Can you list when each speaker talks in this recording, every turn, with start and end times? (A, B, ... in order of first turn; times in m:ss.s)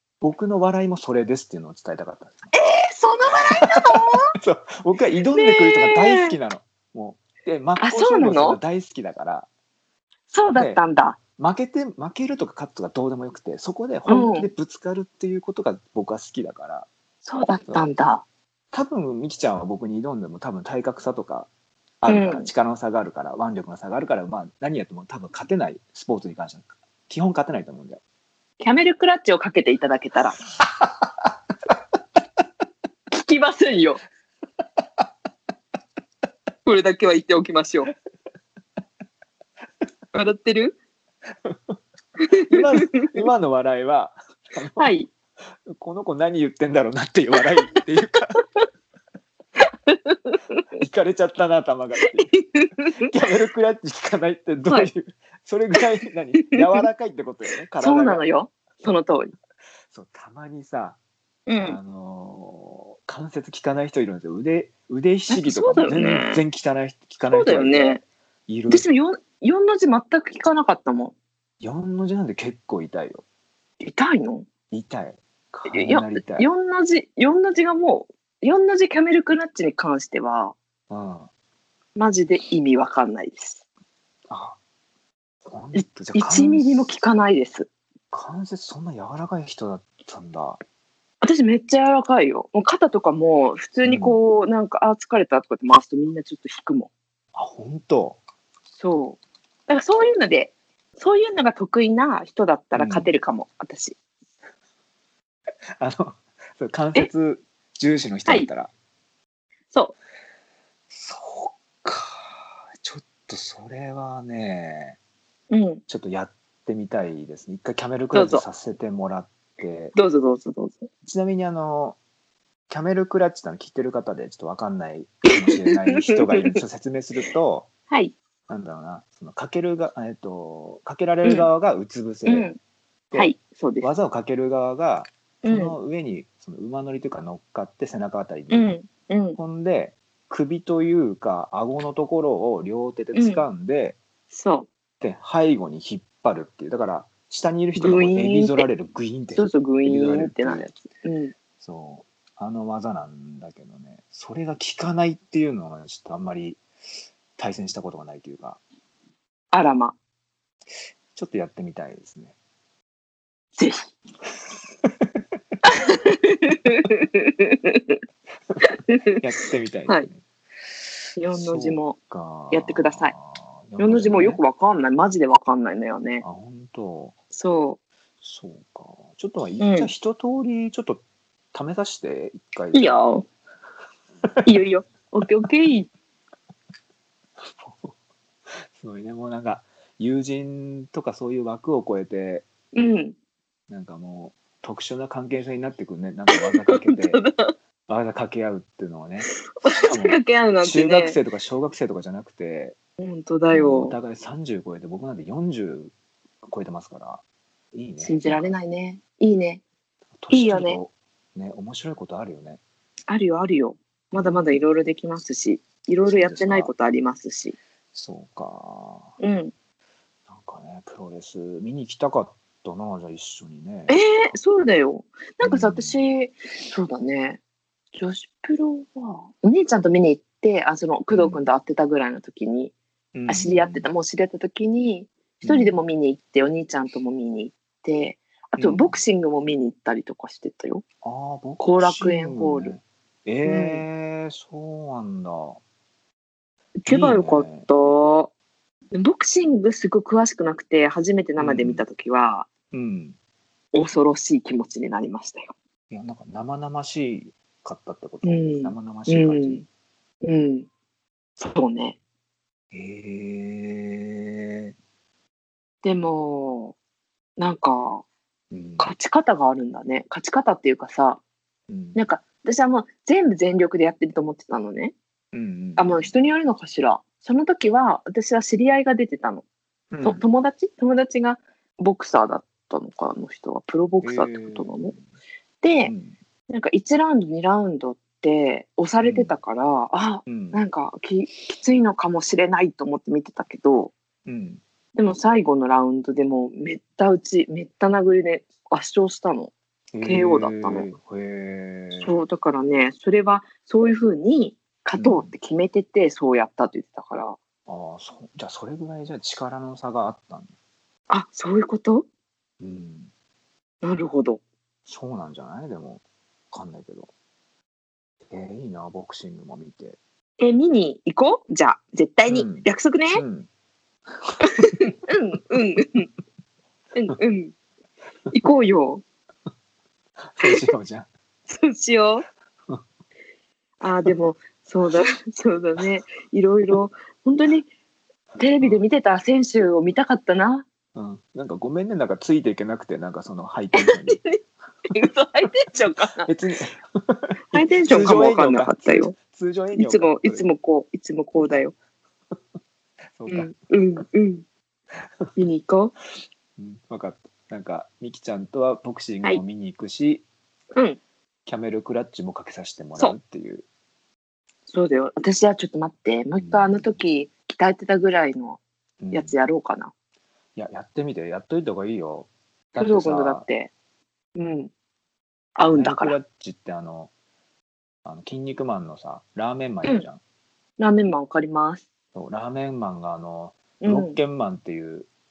0:00.2-0:02.5 A
0:02.5-0:04.3 B
0:03.5-0:09.5 A
0:05.3-0:06.4 B
0:07.8-0:08.6 B
0:10.3-0:11.2 B
0:10.5-0:10.8 A
0:11.4-0:16.9 A
0:14.1-0:14.5 B
0:17.2-0:18.2 B
0:18.7-0:21.5 A
0:22.0-0:28.0 A
0:22.1-0:22.5 B
0:28.6-0:30.4 B
0:33.1-0:34.0 B
0:36.6-0:37.9 B
0:40.1-0:40.8 B
0:42.3-0:42.6 B
0:42.4-0:44.9 A
0:44.8-0:45.1 B
0:45.7-0:48.4 A
0:49.6-0:50.6 B
0:50.8-0:52.3 A
0:52.1-0:53.1 B
0:53.0-0:58.3 A
0:57.8-0:59.3 B
0:59.9-1:01.0 A
1:01.5-1:01.8 B
1:01.6-1:08.8 A
1:05.3-1:06.4 B
1:07.3-1:08.0 B
1:08.7-1:11.1 B
1:11.6-1:13.2 A
1:13.8-1:14.5 B
1:14.7-1:16.5 A
1:15.7-1:20.6 B
1:20.9-1:21.3 A
1:22.0-1:23.6 B
1:24.3-1:24.6 A
1:25.4-1:26.9 A
1:25.7-1:27.7 B
1:28.1-1:30.6 A
1:31.2-1:36.9 B
1:33.8-1:34.2 A
1:37.3-1:38.2 A
1:38.7-1:44.0 B
1:42.8-1:43.1 A
1:45.8-1:48.7 A
1:50.9-1:55.0 A
1:55.5-1:55.8 B
1:55.9-2:00.0 A
1:58.1-1:58.4 B
2:00.0-2:00.9 B
2:01.0-2:02.0 A
2:02.7-2:07.7 A
2:05.5-2:06.6 B
2:08.5-2:12.5 A
2:12.3-2:12.6 B
2:13.1-2:18.8 A
2:13.2-2:13.9 B
2:15.4-2:15.8 B
2:18.5-2:19.4 B
2:19.4-2:24.0 A
2:23.1-2:23.4 B
2:24.3-2:24.7 B
2:25.0-2:30.7 A
2:27.8-2:28.6 B
2:29.4-2:31.3 B
2:31.6-2:36.6 A
2:37.4-2:38.6 A
2:39.5-2:40.0 B
2:41.2-2:42.4 A
2:43.6-2:43.9 B
2:45.6-2:48.0 B
2:48.6-2:49.2 B
2:49.2-2:50.2 A
2:51.2-2:52.0 B
2:51.3-2:54.4 A
2:52.5-2:53.1 B
2:53.8-2:56.2 B
2:56.2-2:57.2 A
2:57.3-2:57.8 B
2:58.2-3:03.0 A
2:59.6-2:59.9 B
3:02.7-3:03.3 B
3:04.2-3:04.6 A
3:04.4-3:05.9 B
3:07.6-3:08.0 A
3:08.7-3:12.5 A
3:12.7-3:13.2 B
3:13.7-3:17.3 A
3:16.7-3:17.5 B
3:17.9-3:22.8 A
3:19.6-3:21.2 B
3:23.0-3:24.0 B
3:23.5-3:28.5 A
3:28.0-3:29.6 B
3:30.2-3:32.6 A
3:30.3-3:30.8 B
3:33.1-3:37.6 B
3:34.1-3:34.7 A
3:36.1-3:36.7 A
3:37.9-3:39.2 A
3:39.2-3:39.5 B
3:40.3-3:44.0 A
3:43.9-3:47.4 B
3:45.4-3:46.0 A
3:47.9-3:52.7 B
3:51.1-3:51.5 A
3:53.1-3:53.9 A
3:53.3-4:00.8 B
3:55.4-3:55.8 A
3:58.6-3:59.0 A
4:01.0-4:05.6 A
4:01.6-4:02.8 B
4:03.5-4:03.8 B
4:06.8-4:08.3 B
4:06.9-4:07.7 A
4:08.9-4:12.5 B
4:11.4-4:11.8 A
4:12.7-4:13.2 A
4:13.7-4:15.5 B
4:15.9-4:19.6 A
4:18.2-4:19.6 B
4:20.2-4:20.7 B
4:21.4-4:22.0 B
4:22.7-4:24.8 A
4:25.8-4:26.8 B
4:27.4-4:28.0 B
4:28.5-4:28.9 A
4:28.8-4:31.2 B
4:31.7-4:32.0 A
4:32.0-4:35.0 B
4:35.3-4:36.1 A
4:35.8-4:39.4 B
4:39.9-4:40.2 A
4:40.0-4:44.9 B
4:44.0-4:45.0 A
4:45.6-4:45.9 B
4:45.8-4:46.2 A
4:46.5-4:53.9 B
4:49.0-4:49.4 A
4:50.3-4:50.6 A
4:54.3-4:54.6 A
4:55.0-5:00.9 B
4:59.9-5:02.2 A
5:02.0-5:07.4 B
5:05.0-5:05.3 A
5:07.7-5:10.5 A
5:11.1-5:12.1 B
5:12.6-5:13.1 A
5:13.8-5:14.4 B
5:14.9-5:17.1 A
5:18.3-5:20.0 A
5:20.4-5:23.2 B
5:22.3-5:23.5 A
5:24.2-5:24.9 A
5:24.6-5:26.1 B
5:27.0-5:27.5 B
5:28.3-5:29.0 B
5:30.2-5:31.1 A
5:31.5-5:32.2 B
5:33.8-5:37.7 B
5:38.4-5:40.6 B
5:41.0-5:44.2 A
5:43.8-5:44.4 B
5:44.9-5:46.3 B
5:46.2-5:50.5 A
5:47.5-5:49.2 B
5:49.8-5:51.7 B
5:53.2-5:53.5 A
5:53.3-5:54.4 B
5:55.4-5:55.9 B
5:56.6-6:00.2 A
6:00.7-6:01.0 B
6:01.5-6:03.7 A
6:04.7-6:08.6 B
6:06.3-6:07.0 A
6:09.0-6:09.4 A
6:09.1-6:09.9 B
6:10.6-6:13.5 A
6:12.8-6:13.7 B
6:14.4-6:14.7 B
6:15.6-6:16.2 B
6:15.7-6:17.1 A
6:18.0-6:20.2 A
6:20.8-6:21.8 B
6:22.1-6:25.1 A
6:23.8-6:24.2 B